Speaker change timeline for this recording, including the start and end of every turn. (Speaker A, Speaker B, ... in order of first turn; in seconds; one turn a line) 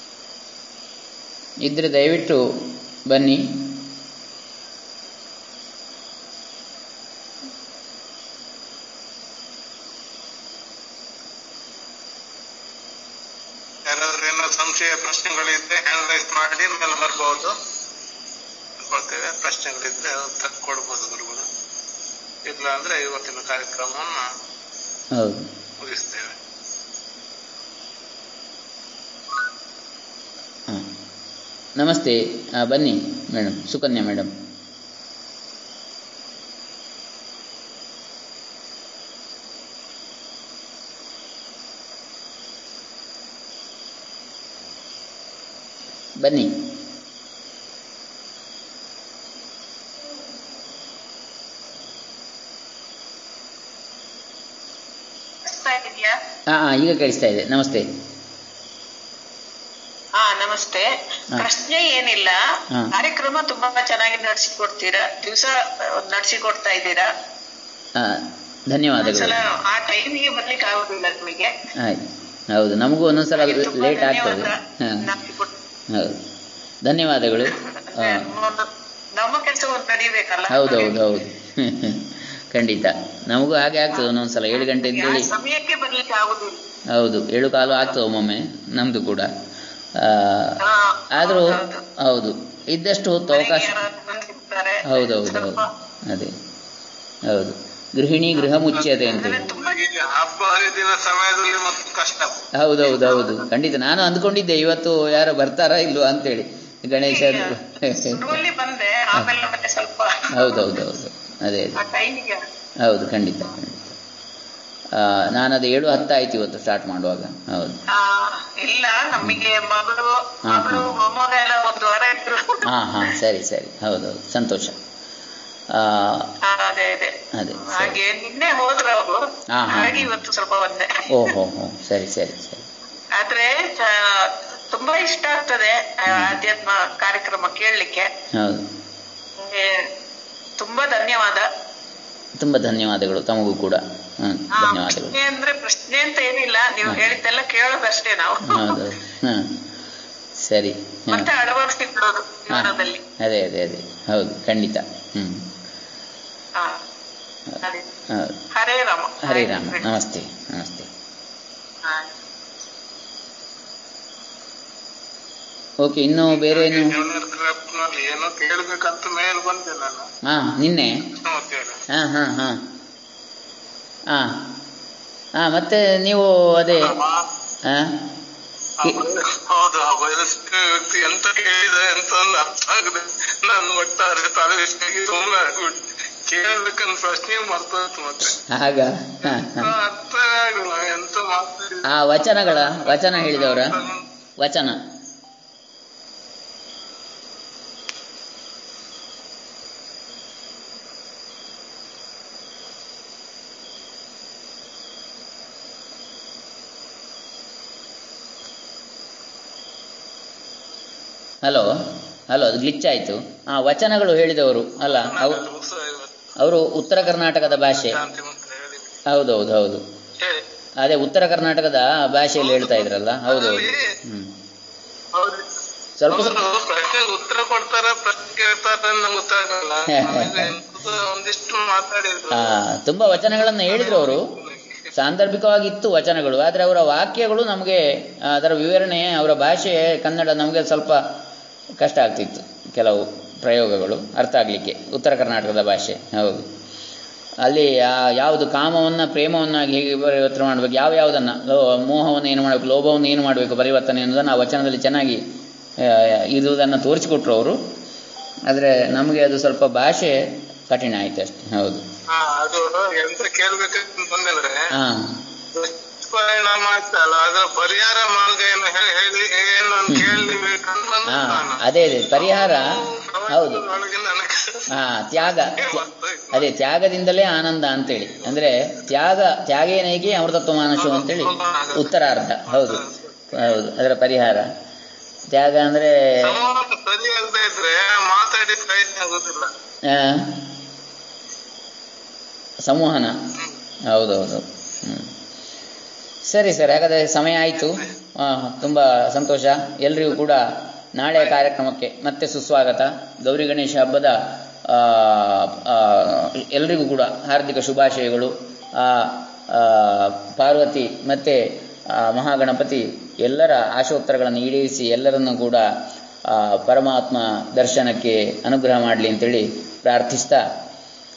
Speaker A: 1.6-3.4
Speaker B: 13.9-17.6
Speaker B: 18.8-21.5
Speaker B: 22.5-24.3
Speaker A: 25.1-25.5
Speaker B: 25.8-26.4
Speaker A: 31.8-34.3
Speaker A: 46.2-46.6
Speaker C: 55.5-56.2
Speaker A: 56.5-57.9
Speaker C: 60.2-62.4
Speaker C: 62.9-67.1
Speaker A: 68.0-69.4
Speaker C: 69.0-71.5
Speaker A: 71.8-75.0
Speaker C: 73.4-75.5
Speaker A: 75.9-76.2
Speaker A: 76.8-78.3
Speaker C: 77.6-81.0
Speaker A: 80.5-85.3
Speaker C: 84.0-86.6
Speaker A: 86.9-89.3
Speaker A: 90.0-93.8
Speaker C: 90.6-91.8
Speaker C: 93.3-95.7
Speaker A: 94.9-96.3
Speaker A: 97.3-99.4
Speaker B: 98.8-102.5
Speaker C: 98.9-99.8
Speaker A: 102.6-108.4
Speaker C: 103.0-103.3
Speaker C: 107.0-110.7
Speaker A: 110.3-111.8
Speaker C: 111.8-112.4
Speaker A: 112.8-114.0
Speaker A: 114.9-117.8
Speaker C: 117.9-122.7
Speaker A: 120.5-120.9
Speaker A: 122.7-124.8
Speaker A: 125.7-126.3
Speaker C: 126.4-131.4
Speaker A: 127.3-128.0
Speaker A: 129.5-130.1
Speaker A: 131.1-132.7
Speaker C: 133.2-138.1
Speaker A: 136.1-136.4
Speaker A: 138.3-138.7
Speaker C: 139.4-139.9
Speaker C: 140.6-141.5
Speaker A: 142.4-145.2
Speaker C: 144.5-148.9
Speaker A: 148.4-149.5
Speaker A: 150.4-151.3
Speaker C: 151.1-153.0
Speaker A: 152.5-155.5
Speaker C: 156.6-156.8
Speaker C: 157.6-157.9
Speaker A: 158.1-158.4
Speaker C: 158.5-159.9
Speaker A: 159.2-160.9
Speaker C: 161.8-162.1
Speaker A: 165.8-167.0
Speaker B: 166.3-170.1
Speaker A: 170.2-171.1
Speaker B: 171.2-171.8
Speaker A: 171.9-172.6
Speaker A: 174.1-174.4
Speaker A: 175.4-176.9
Speaker B: 176.8-177.3
Speaker A: 177.7-178.0
Speaker B: 178.8-188.4
Speaker A: 188.4-189.7
Speaker B: 189.2-194.1
Speaker A: 191.9-193.8
Speaker A: 194.4-194.8
Speaker A: 211.4-211.7
Speaker A: 212.3-215.4
Speaker B: 214.8-216.3
Speaker A: 216.4-218.0
Speaker B: 217.4-219.0
Speaker A: 219.1-219.8
Speaker B: 220.2-220.5
Speaker A: 220.8-224.3
Speaker B: 222.4-224.0
Speaker B: 225.1-225.5
Speaker A: 226.0-226.4
Speaker B: 226.1-232.6
Speaker A: 229.9-230.5
Speaker A: 232.3-234.3
Speaker B: 233.6-234.9
Speaker A: 234.9-241.0
Speaker A: 241.8-246.5
Speaker A: 247.4-255.2
Speaker A: 255.8-257.6
Speaker A: 258.5-260.2
Speaker A: 260.7-261.8
Speaker B: 262.1-264.7
Speaker A: 264.7-265.2
Speaker B: 265.5-276.6
Speaker A: 269.9-270.3
Speaker A: 271.1-272.7
Speaker A: 273.3-273.6
Speaker A: 274.7-284.5
Speaker B: 277.9-278.4
Speaker B: 280.8-281.9
Speaker B: 282.5-283.6
Speaker A: 285.3-286.4
Speaker B: 286.2-289.5
Speaker A: 289.9-290.4
Speaker A: 292.7-293.2
Speaker A: 293.9-295.1
Speaker A: 296.3-315.6
Speaker A: 316.3-320.4